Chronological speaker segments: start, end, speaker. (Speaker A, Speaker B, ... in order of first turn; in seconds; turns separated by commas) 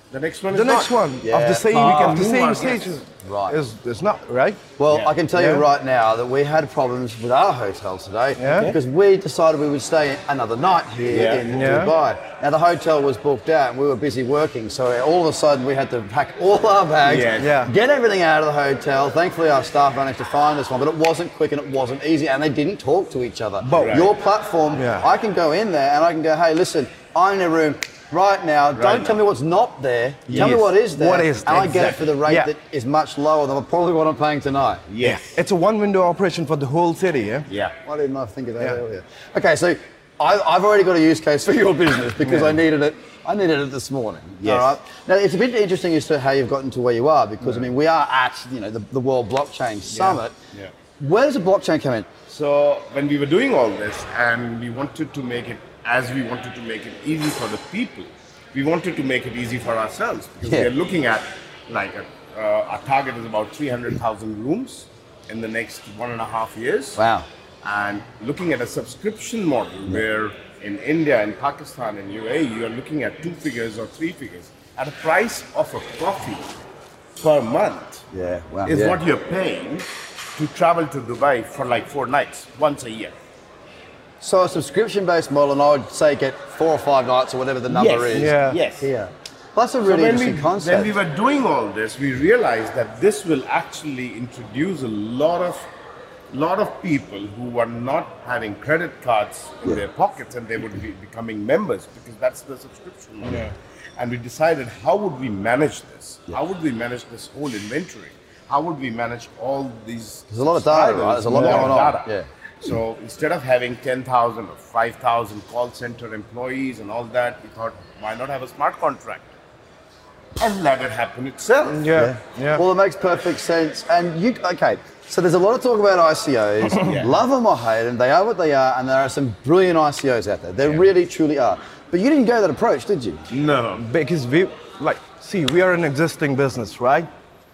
Speaker A: 0.1-0.9, Speaker B: 0.5-4.6, Speaker C: 1.2-2.2, Speaker A: 1.7-3.0, Speaker C: 3.2-3.6, Speaker C: 4.8-34.8, Speaker B: 5.3-5.6, Speaker B: 8.4-8.7, Speaker A: 8.4-8.8, Speaker A: 11.1-11.5, Speaker B: 11.5-11.9, Speaker A: 17.0-17.5, Speaker B: 17.4-17.7, Speaker B: 23.6-24.0, Speaker A: 23.7-24.1, Speaker B: 24.8-25.1, Speaker A: 28.7-29.2, Speaker A: 30.3-30.7, Speaker B: 30.3-32.5, Speaker A: 31.5-32.1, Speaker A: 34.9-35.4, Speaker B: 35.0-37.5, Speaker A: 37.5-37.7, Speaker C: 37.8-50.3, Speaker B: 42.2-42.6, Speaker A: 44.4-44.8, Speaker A: 49.9-50.7, Speaker C: 51.0-52.1, Speaker A: 52.3-67.0, Speaker C: 60.5-60.7, Speaker C: 67.0-67.3, Speaker A: 67.6-76.6, Speaker A: 77.2-78.0, Speaker C: 78.1-79.0, Speaker A: 78.6-83.1, Speaker C: 84.2-91.0, Speaker A: 87.7-88.9, Speaker B: 88.1-88.6, Speaker A: 89.8-95.7, Speaker A: 96.3-119.3, Speaker B: 103.2-103.5, Speaker C: 110.3-112.3, Speaker B: 111.3-111.8, Speaker A: 120.4-121.9, Speaker B: 121.6-122.6, Speaker C: 121.9-133.2, Speaker A: 126.6-127.2, Speaker A: 133.3-133.8, Speaker B: 133.8-137.1